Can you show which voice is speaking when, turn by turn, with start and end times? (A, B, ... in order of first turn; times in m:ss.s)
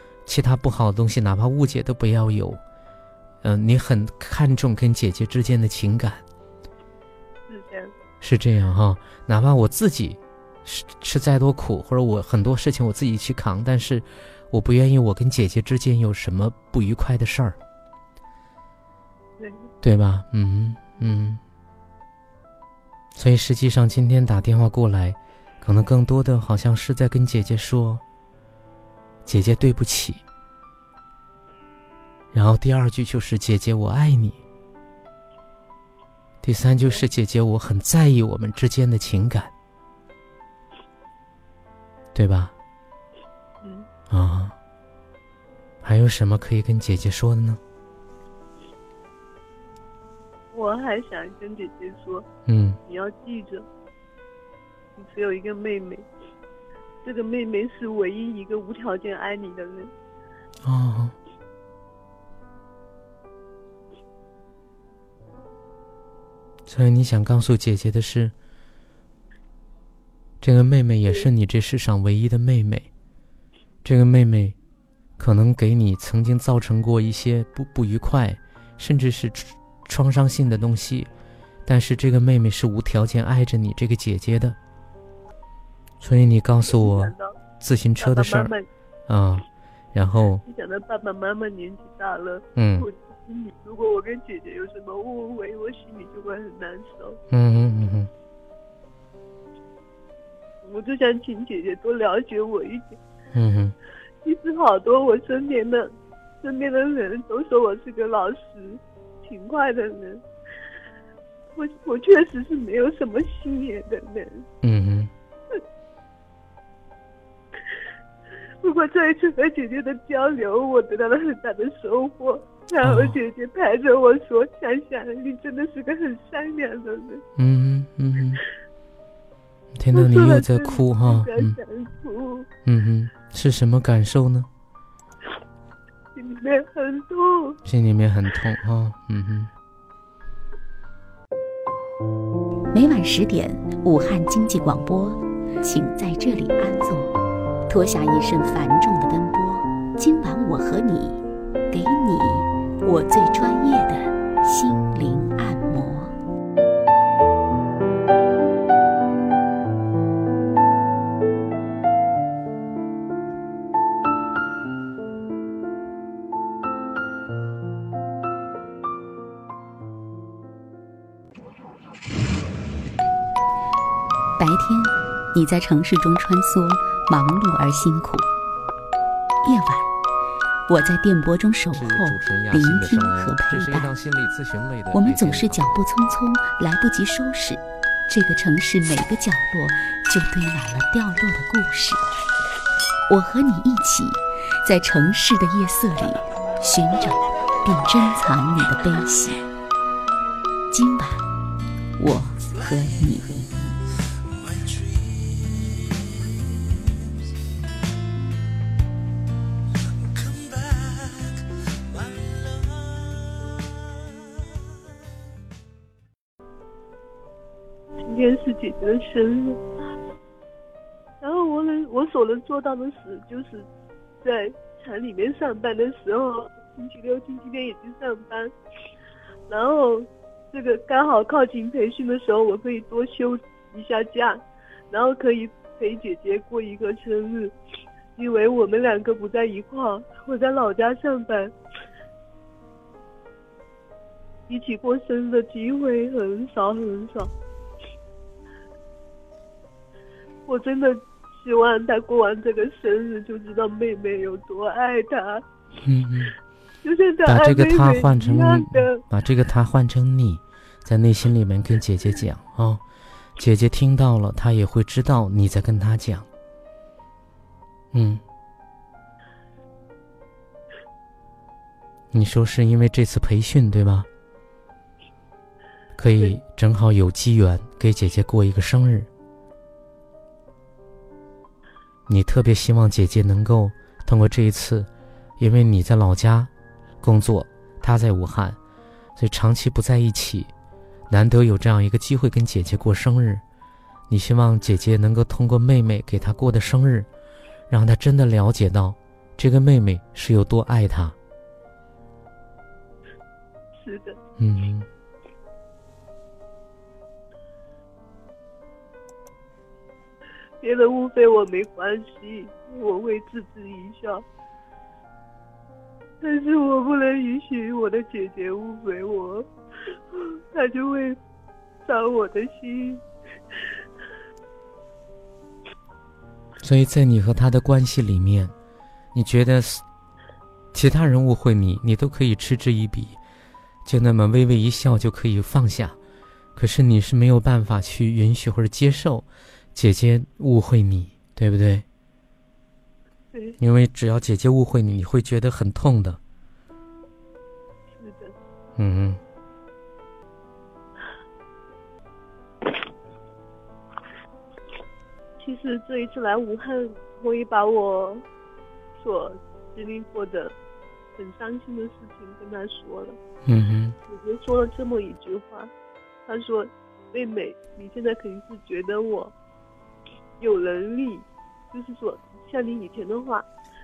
0:00.2-0:02.6 A
0:03.4-0:06.2 A
0:07.5-0:07.9 B
0:08.2-0:17.6 A
0:19.4-0:19.7 B
0:19.8-0:21.4 A
0:23.1-0:28.0 A
0:29.2-0:30.2 A
0:32.3-0:34.4 A
0:36.4-0:39.5 A
0:42.1-0:42.5 A
0:43.6-0:43.9 B
0:44.1-0:44.6 A
0:45.8-0:47.6 A
0:50.5-0:52.2 B
0:52.5-0:52.8 A
0:52.9-0:53.6 B
0:55.0-0:56.0 B
0:57.0-0:59.9 B
1:00.6-1:01.1 A
1:06.7-1:08.3 A
1:10.4-1:12.9 A
1:13.8-1:14.6 A
1:15.2-1:21.1 A
1:21.6-1:24.6 A
1:26.0-1:28.5 A
1:26.6-1:27.4 B
1:28.0-1:28.7 B
1:29.1-1:30.4 A
1:30.4-1:37.2 B
1:32.6-1:32.9 A
1:37.3-1:38.1 A
1:40.6-1:43.0 B
1:43.3-1:43.7 A
1:44.2-1:50.2 B
1:51.6-1:54.5 B
1:54.6-1:55.1 A
1:58.6-2:07.2 B
2:02.8-2:03.2 A
2:07.4-2:08.4 A
2:09.7-2:11.6 A
2:09.9-2:12.5 B
2:12.6-2:14.5 A
2:16.1-2:17.6 B
2:17.6-2:19.5 A
2:22.7-2:27.1 C
2:27.7-2:36.1 C
2:54.4-2:58.3 C
2:59.4-2:59.9 C
3:00.7-3:03.9 C
3:01.7-3:05.8 A
3:04.9-3:12.0 C
3:13.1-3:19.5 C
3:20.7-3:21.3 C
3:22.0-3:23.8 C
3:38.0-3:39.6 B
3:41.2-3:43.7 B
3:44.2-3:48.5 B
3:49.5-3:57.5 B
3:58.1-4:01.5 B
4:04.5-4:07.3 B
4:10.5-4:15.4 B
4:15.8-4:16.3 A
4:16.8-4:19.0 B
4:17.2-4:22.8 A
4:23.4-4:26.3 A
4:27.9-4:28.2 A
4:32.1-4:34.1 A
4:36.0-4:39.1 A
4:42.1-4:44.9 A
4:45.4-4:46.5 A
4:47.0-4:48.6 A
4:49.2-4:50.5 A
4:51.1-4:53.4 A
4:54.1-4:57.1 A
4:57.7-5:01.1 A
5:03.8-5:04.2 B
5:04.4-5:04.9 A
5:10.6-5:14.2 B
5:16.2-5:19.5 B
5:20.1-5:21.2 B
5:21.8-5:23.0 B
5:26.6-5:28.5 A
5:29.1-5:29.8 A
5:30.7-5:33.2 A
5:33.8-5:36.0 A
5:36.6-5:41.8 A
5:43.6-5:46.2 A
5:48.0-5:48.3 B
5:48.8-5:49.2 A
5:55.4-5:58.2 B
5:59.0-6:00.5 B
6:01.2-6:03.2 B
6:03.4-6:04.0 A
6:04.1-6:05.7 B
6:06.2-6:09.3 B
6:10.4-6:13.5 B